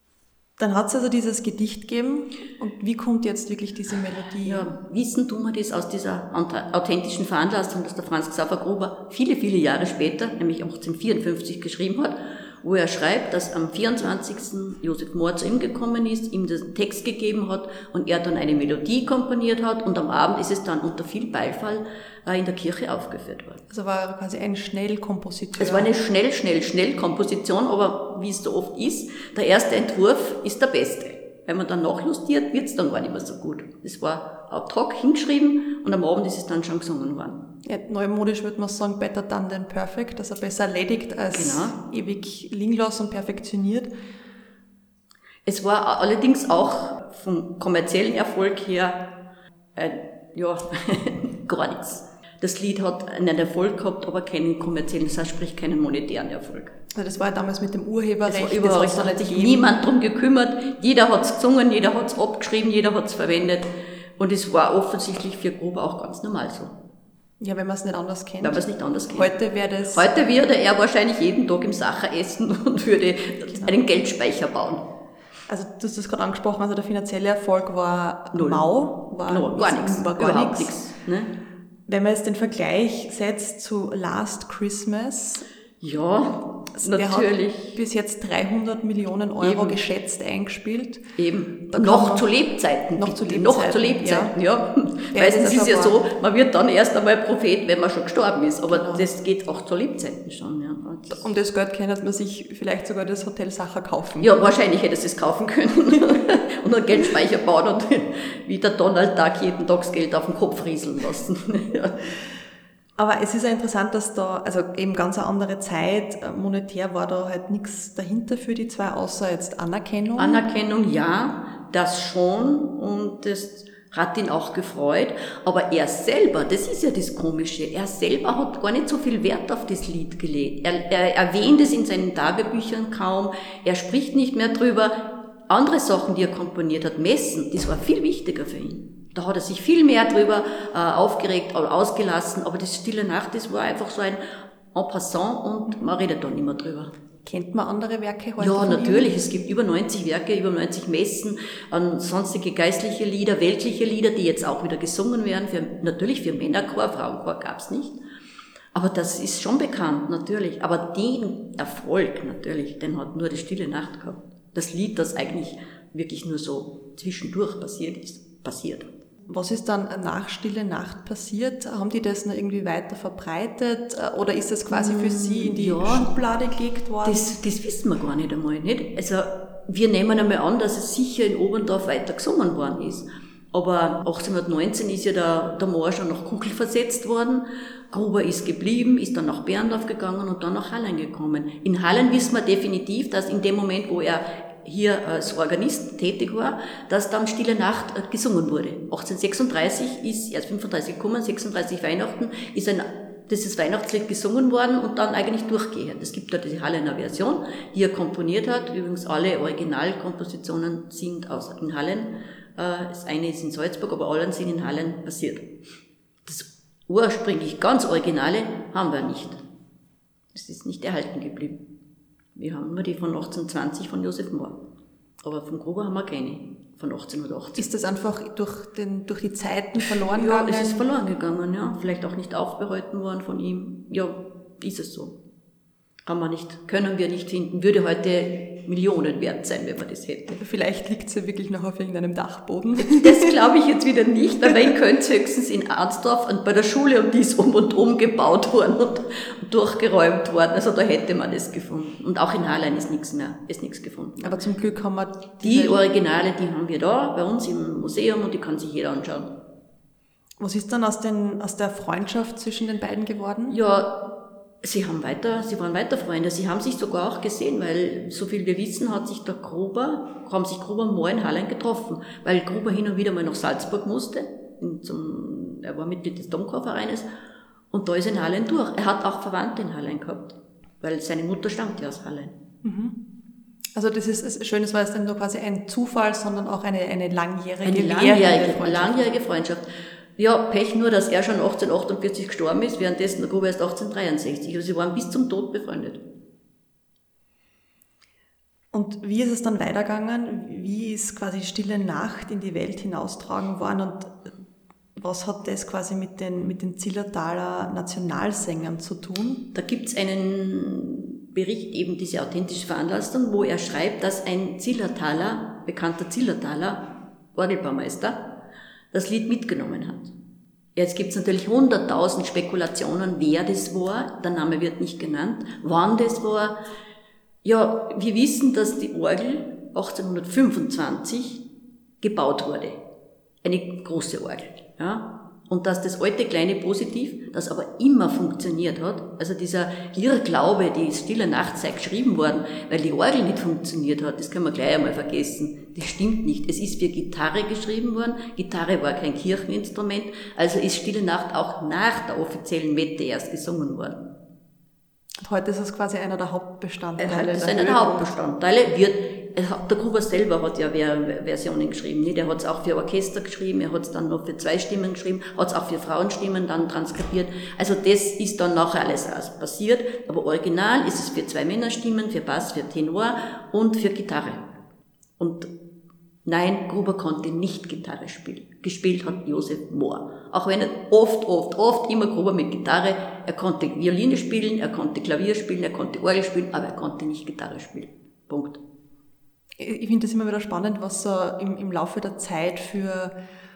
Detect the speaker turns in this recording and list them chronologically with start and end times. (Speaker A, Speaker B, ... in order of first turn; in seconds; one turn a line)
Speaker A: 0.6-4.7
Speaker B: 4.4-23.6
Speaker A: 23.7-25.9
Speaker B: 25.6-37.4
Speaker A: 37.6-43.9
Speaker B: 41.3-41.8
Speaker B: 45.5-49.0
Speaker B: 49.7-56.7
Speaker A: 56.9-59.8
Speaker B: 58.3-66.7
Speaker A: 67.4-70.1
Speaker B: 68.4-69.3
Speaker B: 69.9-74.8
Speaker A: 75.5-80.7
Speaker B: 78.3-78.7
Speaker B: 79.2-81.3
Speaker A: 81.9-85.4
Speaker B: 85.8-87.8
Speaker A: 86.8-91.0
Speaker B: 89.4-89.8
Speaker B: 91.2-101.2
Speaker A: 91.7-92.3
Speaker A: 93.0-94.3
Speaker A: 95.1-95.9
Speaker A: 98.7-99.0
Speaker A: 101.2-104.3
Speaker B: 104.2-112.0
Speaker A: 113.0-120.4
Speaker B: 120.2-144.2
Speaker B: 144.7-146.9
Speaker A: 147.2-149.1
Speaker B: 148.4-158.0
Speaker B: 158.7-168.9
Speaker A: 169.3-177.2
Speaker B: 174.7-176.1
Speaker B: 177.0-215.4
Speaker B: 216.2-219.4
Speaker B: 220.3-221.6
Speaker B: 222.3-224.6
Speaker B: 225.2-227.7
Speaker A: 227.6-230.8
Speaker B: 230.0-235.2
Speaker B: 236.1-240.4
Speaker A: 240.4-243.3
Speaker B: 242.8-254.3
Speaker A: 254.2-255.8
Speaker B: 255.4-259.3
Speaker A: 260.4-263.6
Speaker B: 263.5-264.0
Speaker B: 264.6-277.1
Speaker B: 277.7-282.3
Speaker A: 282.6-282.9
Speaker A: 283.7-289.1
Speaker B: 287.6-296.0
Speaker A: 298.7-304.3
Speaker A: 304.9-309.4
Speaker B: 309.5-318.2
Speaker B: 318.9-320.1
Speaker B: 320.8-326.6
Speaker B: 327.4-331.4
Speaker B: 332.0-332.8
Speaker B: 333.4-354.0
Speaker A: 355.2-358.0
Speaker B: 357.0-374.4
Speaker B: 375.2-375.5
Speaker B: 376.2-388.6
Speaker A: 389.6-393.1